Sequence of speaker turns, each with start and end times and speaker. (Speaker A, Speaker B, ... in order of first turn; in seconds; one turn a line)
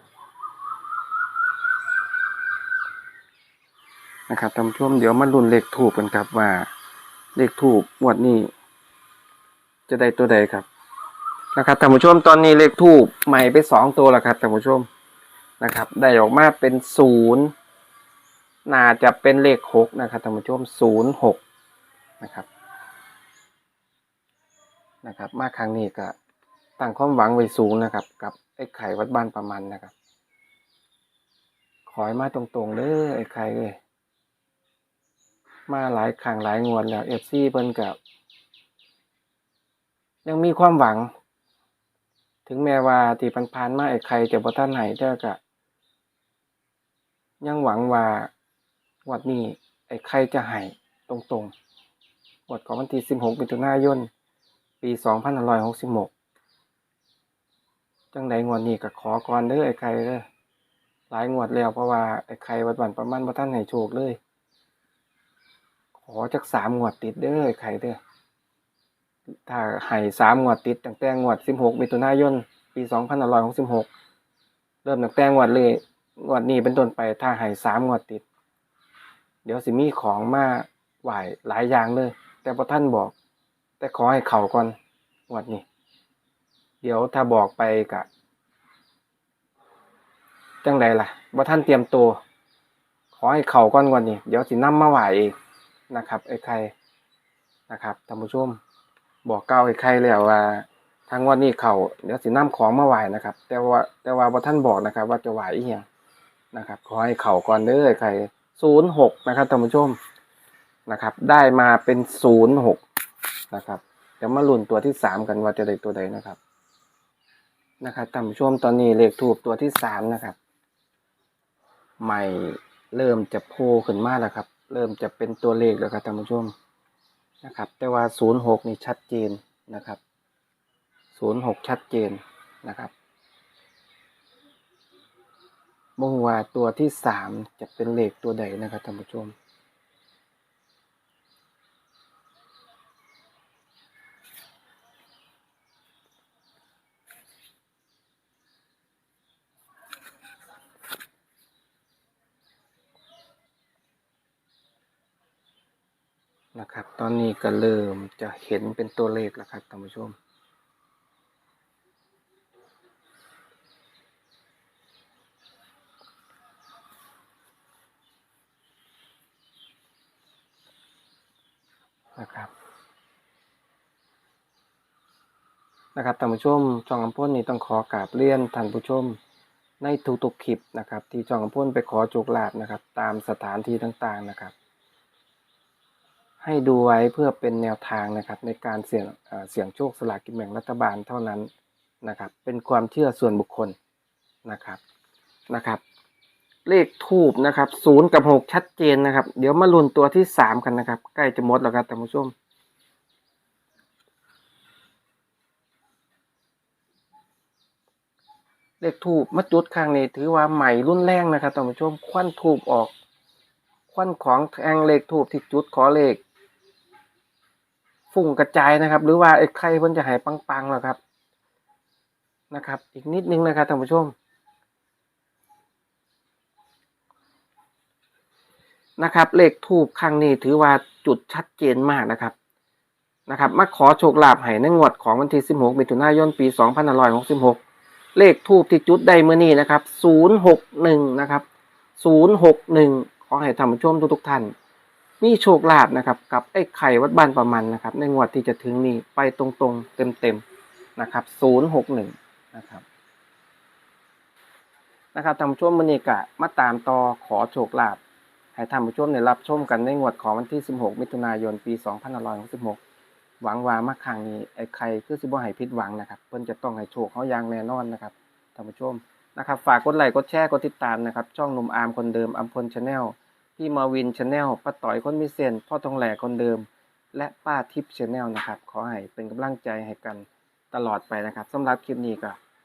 Speaker A: 4.3-6.7
Speaker A: 7.3-8.5
Speaker A: 9.9-10.7
Speaker A: 11.5-14.9
Speaker A: 15.6-17.5
Speaker A: 18.6-21.4
Speaker A: 22.2-22.5
Speaker A: 25.0-26.1
Speaker A: 26.8-29.9
Speaker A: 31.9-33.8
Speaker A: 35.7-38.0
Speaker A: 40.2-41.1
Speaker A: 42.5-45.4
Speaker A: 47.4-48.3
Speaker A: 49.0-51.5
Speaker A: 52.5-54.1
Speaker A: 54.8-56.1
Speaker A: 58.1-60.2
Speaker A: 61.1-64.2
Speaker A: 66.0-68.0
Speaker A: 69.5-73.9
Speaker A: 74.8-78.2
Speaker A: 79.4-83.1
Speaker A: 83.8-84.8
Speaker A: 85.3-85.6
Speaker A: 86.8-88.1
Speaker A: 90.6-92.2
Speaker A: 93.1-95.3
Speaker A: 95.9-96.7
Speaker A: 97.7-98.6
Speaker A: 99.2-105.8
Speaker A: 106.5-110.0
Speaker A: 110.9-112.8
Speaker A: 113.5-116.4
Speaker A: 117.8-120.4
Speaker A: 122.0-126.5
Speaker A: 127.4-130.0
Speaker A: 131.1-132.9
Speaker A: 136.0-139.3
Speaker A: 156.5-160.2
Speaker A: 172.2-172.5
Speaker A: 175.9-179.2
Speaker A: 179.8-184.5
Speaker A: 186.4-191.5
Speaker A: 192.0-193.8
Speaker A: 194.4-194.8
Speaker A: 195.5-195.8
Speaker A: 196.7-202.3
Speaker A: 208.8-212.9
Speaker A: 213.9-216.2
Speaker A: 218.1-221.0
Speaker A: 222.5-224.1
Speaker A: 229.0-232.3
Speaker A: 233.3-237.6
Speaker A: 238.1-241.4
Speaker A: 242.0-244.5
Speaker A: 245.2-250.4
Speaker A: 251.0-252.8
Speaker A: 255.1-258.0
Speaker A: 258.5-262.8
Speaker A: 263.4-282.4